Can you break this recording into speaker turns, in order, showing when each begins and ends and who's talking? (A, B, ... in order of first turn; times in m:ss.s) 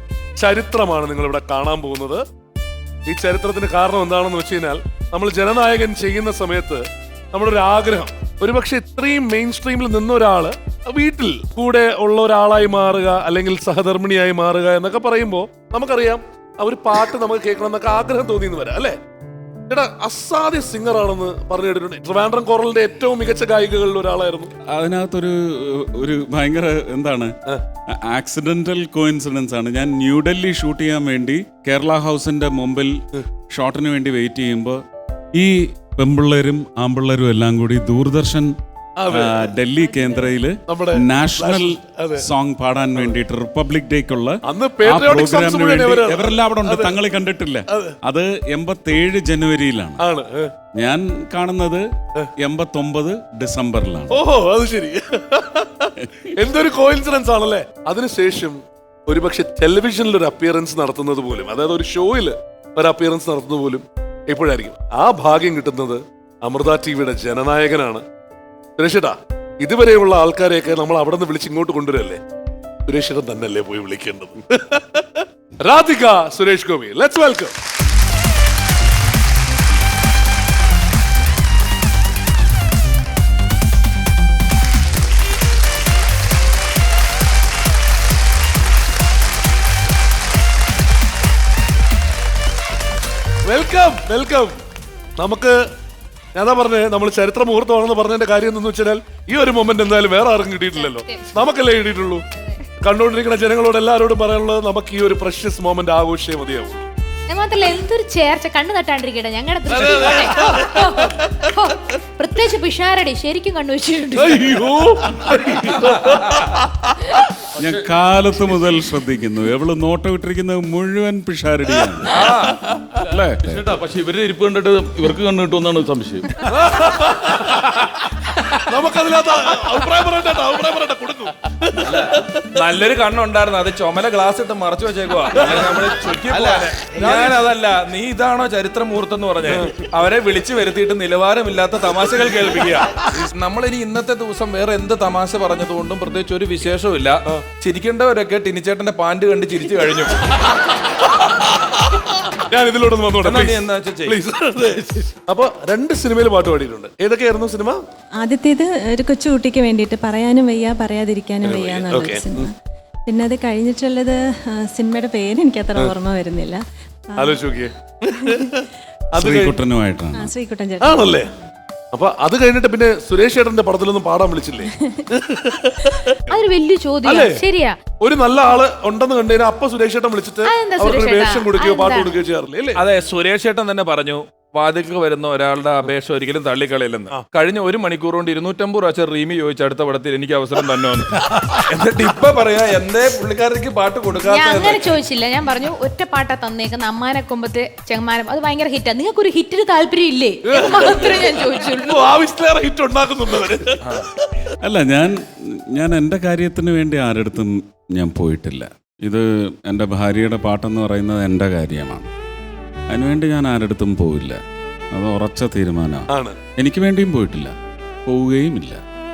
0:00.4-0:02.2 A
0:03.1-0:19.0 A
0:19.7-0:24.5 A
0:24.7-0:27.3 B
0:27.9-0:33.0 B
0:33.5-0:34.8 B
0:35.3-0:38.5 B
0:39.0-0:39.5 A
0:39.1-0:50.0 B
0:39.9-0:40.3 C
0:40.7-0:42.2 A
0:44.4-0:46.9 A
0:47.7-0:48.0 A
0:50.0-0:50.5 A
0:50.8-0:51.8 B
0:52.4-0:54.2 B
0:54.1-1:08.0 A
0:56.0-0:56.3 B
1:08.8-1:12.2 A
1:12.9-1:17.5 A
1:33.4-1:34.6 A
1:35.2-1:35.6 A
1:36.3-1:42.2 A
1:40.8-1:41.3 D
1:42.8-1:46.9 A
1:47.3-1:54.6 D
1:49.7-1:51.4 A
1:54.2-1:56.8 A
1:55.8-1:56.6 E
1:57.6-2:02.2 B
1:57.6-1:58.7 E
2:02.1-2:05.1 E
2:02.9-2:03.7 B
2:04.2-2:06.2 F
2:06.4-2:07.9 A
2:07.5-2:07.8 E
2:08.6-2:12.2 A
2:11.8-2:30.4 E
2:15.4-2:17.4 A
2:19.4-2:19.7 A
2:32.3-2:37.8 A
2:33.2-2:34.2 E
2:38.2-2:42.5 C
2:41.4-2:42.5 A
2:43.0-2:47.4 C
2:47.2-2:49.6 A
2:48.2-2:48.5 C
2:49.1-2:50.3 B
2:50.1-2:51.2 C
2:50.8-2:51.3 A
2:51.9-2:56.4 A
2:56.3-2:57.8 D
2:57.0-2:57.4 A
2:58.0-3:02.8 A
3:00.4-3:02.2 D
3:02.8-3:15.0 E
3:14.2-3:22.1 D
3:20.5-3:24.1 A
3:24.6-3:32.1 B
3:32.9-3:34.4 B
3:34.9-3:37.5 B
3:36.1-3:36.4 A
3:38.0-3:38.8 B